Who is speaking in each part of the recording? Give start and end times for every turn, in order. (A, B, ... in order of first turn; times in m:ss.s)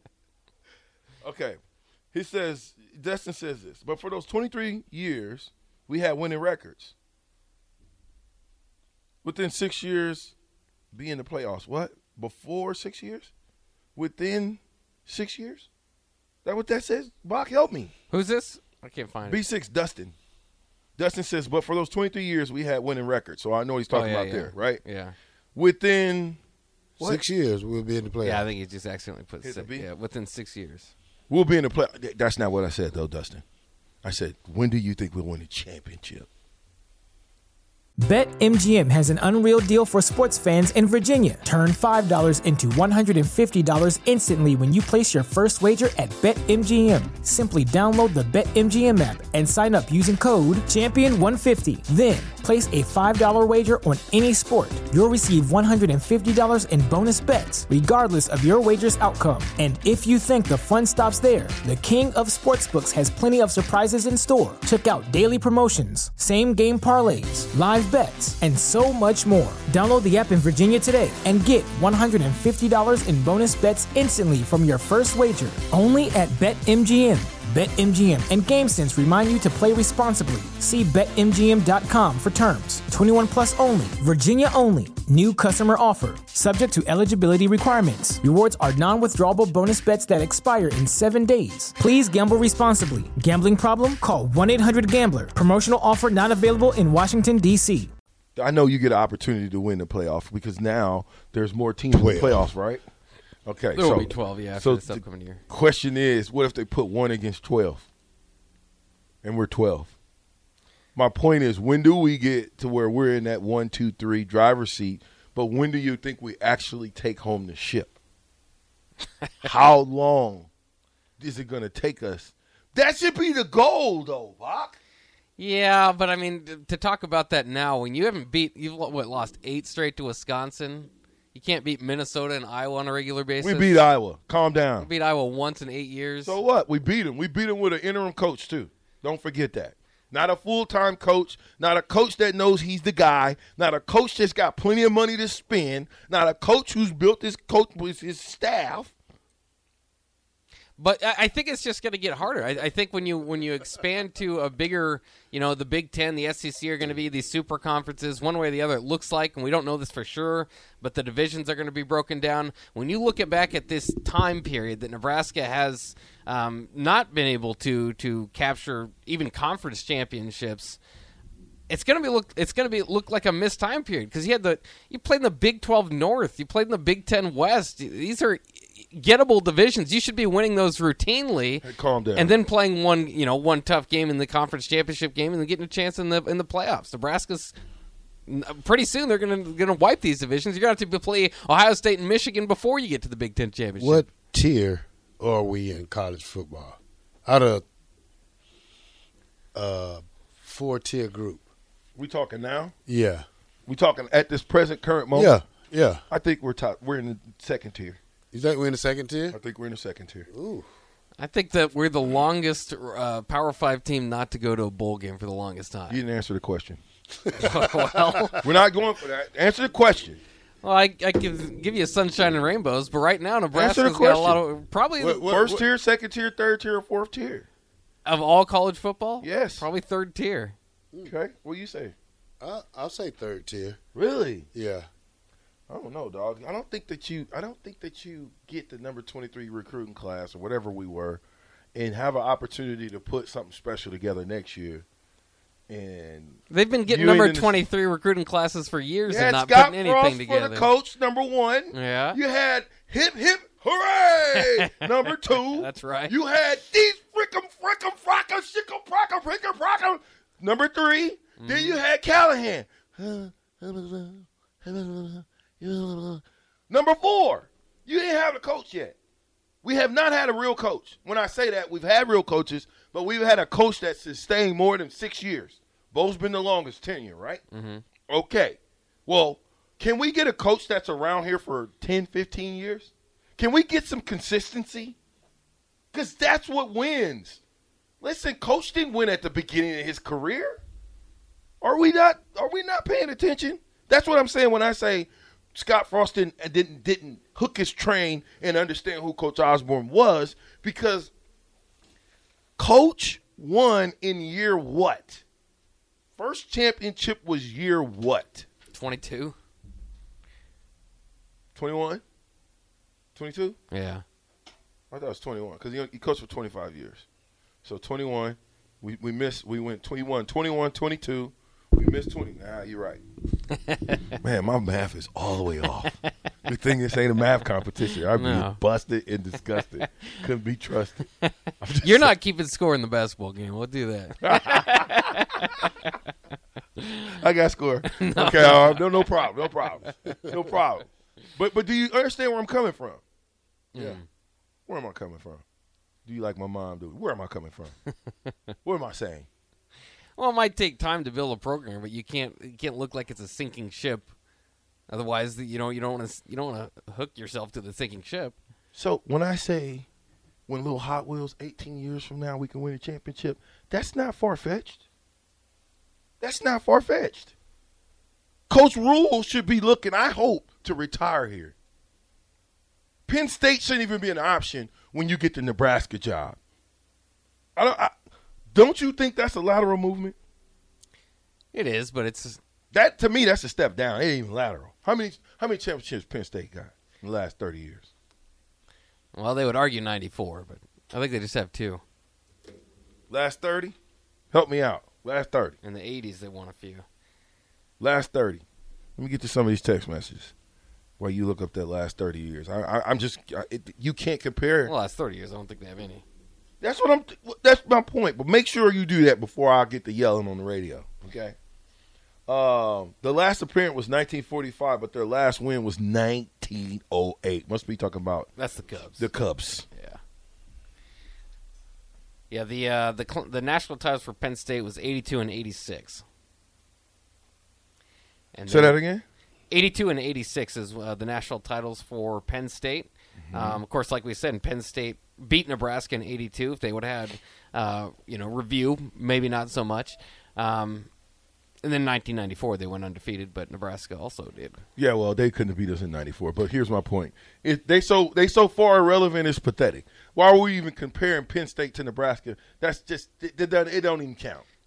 0:01.2-0:01.6 A
0:02.1-0:06.9 A
0:09.2-0:10.3 A
0:10.9-0:13.3 A
0:13.9-0:15.7 A
0:16.4-0:17.9 A
0:18.1-0:19.4 B
0:19.3-0:20.1 A
0:21.0-0:24.8 A
0:23.9-0:25.1 B
0:25.5-0:26.4 A
0:27.0-0:28.4 C
0:28.2-0:30.9 B
0:29.4-0:29.9 A
0:31.3-0:33.4 A
0:34.0-0:36.3 A
0:38.0-1:37.9 D
1:38.4-1:42.8 A
1:41.9-1:42.5 C
1:43.4-1:47.9 A
1:43.7-1:45.4 B
1:49.2-1:49.9 A
1:50.9-1:58.0 A
1:59.4-2:00.5 A
2:01.2-2:04.8 A
2:05.4-2:13.9 B
2:13.4-2:14.9 A
2:14.8-2:16.4 B
2:16.2-2:28.9 A
2:30.8-2:50.8 B
2:51.7-3:07.5 B
3:01.6-3:02.3 A
3:08.3-3:14.1 B
3:13.8-3:17.6 C
3:19.5-3:21.4 C
3:22.0-3:22.7 A
3:22.9-3:23.2 C
3:23.7-3:25.4 A
3:25.1-3:26.0 C
3:26.1-3:28.0 A
3:28.3-3:29.4 C
3:29.3-3:30.3 A
3:30.3-3:30.7 C
3:31.2-3:36.0 B
3:35.9-3:36.8 A
3:37.1-3:38.4 C
3:37.4-3:38.4 B
3:38.4-3:40.2 A
3:40.6-3:45.3 B
3:43.5-3:44.4 A
3:45.0-3:45.7 C
3:45.2-3:47.5 A
3:48.0-3:50.5 B
3:49.2-3:49.6 A
3:51.0-3:51.9 A
3:52.4-3:53.8 C
3:53.9-3:54.5 A
3:54.5-3:54.9 C
3:55.7-4:01.2 A
4:01.7-4:04.8 A
4:05.7-4:07.5 A
4:06.5-4:10.7 B
4:09.1-4:29.0 A
4:11.7-4:12.2 B
4:14.4-4:16.1 B
4:21.4-4:21.8 B
4:29.6-4:37.4 A
4:37.5-4:37.8 B
4:38.1-4:45.0 A
4:45.9-4:47.4 A
4:48.0-4:50.6 A
4:51.6-5:01.1 A
5:02.6-5:05.2 A
5:06.2-5:08.5 A
5:08.7-5:09.3 B
5:11.5-5:12.0 A
5:13.1-5:13.6 A
5:13.7-5:14.0 B
5:14.9-5:17.0 A
5:17.6-5:23.0 A
5:23.7-5:24.0 B
5:24.2-5:31.0 A
5:28.1-5:28.6 B
5:31.2-5:35.9 B
5:31.6-5:32.1 A
5:34.2-5:35.2 A
5:36.8-5:37.1 B
5:37.1-5:43.0 A
5:38.0-5:39.1 B
5:43.7-5:44.0 B
5:44.7-5:45.4 A
5:46.0-5:47.7 A
5:48.6-5:49.3 A
5:50.2-5:54.1 B
5:54.9-5:58.3 B
5:58.7-5:59.9 A
6:00.5-6:04.8 A
6:06.2-6:07.3 A
6:08.5-6:11.5 A
6:13.1-6:16.4 A
6:17.6-6:17.9 A
6:18.5-6:20.1 A
6:21.5-6:22.4 B
6:22.7-6:27.9 A
6:29.1-6:31.8 B
6:33.1-6:33.8 A
6:34.3-6:35.6 A
6:35.6-6:36.8 B
6:37.8-6:38.4 A
6:39.0-6:40.3 A
6:41.0-6:44.7 A
6:44.6-6:46.0 B
6:46.6-6:51.3 A
6:52.3-6:58.3 A
6:58.4-6:59.1 B
6:59.0-6:59.6 A
6:59.7-7:00.0 B
7:02.3-7:06.0 B
7:08.3-7:08.8 B
7:08.5-7:09.0 A
7:09.5-7:20.9 B
7:13.2-7:13.6 A
7:21.6-7:24.6 B
7:24.8-7:34.4 A